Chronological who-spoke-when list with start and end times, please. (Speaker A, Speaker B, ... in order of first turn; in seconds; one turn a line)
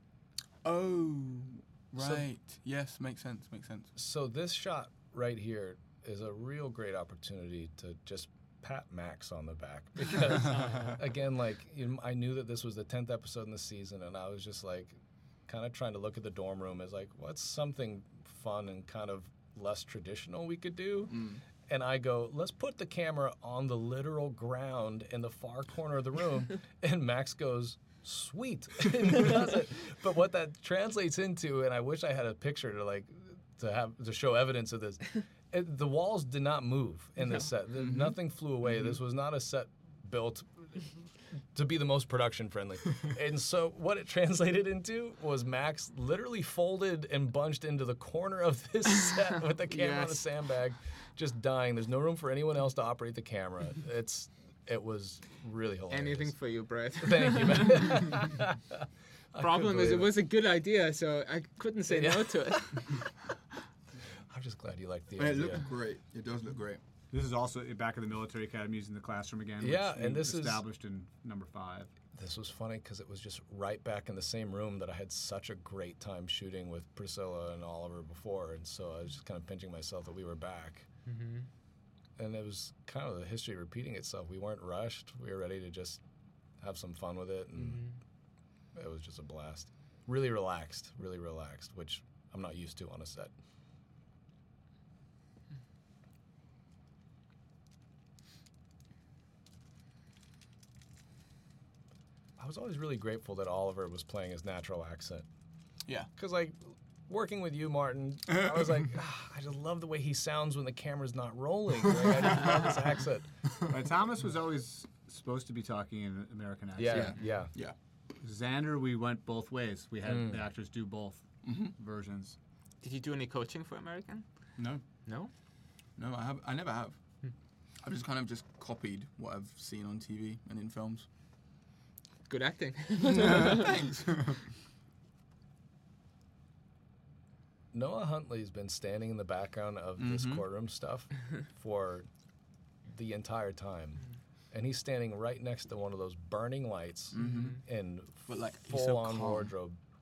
Speaker A: 0.6-3.9
Speaker B: 2.0-2.3
Speaker B: 4.0-40.9
Speaker A: 21.1-21.4
Speaker A: 37.9-38.1
Speaker B: 41.5-56.4
Speaker C: 49.6-50.3
Speaker C: 55.9-58.0
Speaker B: 57.0-60.1
Speaker C: 59.4-63.0
Speaker B: 61.9-63.0
Speaker B: 64.3-65.7
Speaker A: 65.2-66.8
Speaker D: 67.1-71.9
Speaker B: 69.6-70.6
Speaker B: 72.2-80.9
Speaker C: 81.1-81.5
Speaker B: 82.2-86.0
Speaker B: 86.6-87.8
Speaker C: 87.6-88.0
Speaker B: 88.8-93.3
Speaker B: 102.4-105.3
Speaker B: 106.2-113.4
Speaker D: 113.7-117.3
Speaker B: 116.8-117.5
Speaker A: 116.9-117.8
Speaker D: 118.2-122.4
Speaker B: 120.0-120.4
Speaker A: 121.5-121.7
Speaker C: 122.8-124.2
Speaker A: 126.0-127.0
Speaker A: 127.8-131.1
Speaker C: 132.3-133.7
Speaker A: 133.1-134.4
Speaker B: 137.7-142.1
Speaker A: 140.0-140.4
Speaker B: 142.8-149.8
Speaker A: 147.1-147.6
Speaker C: 147.2-147.6
Speaker A: 148.3-149.5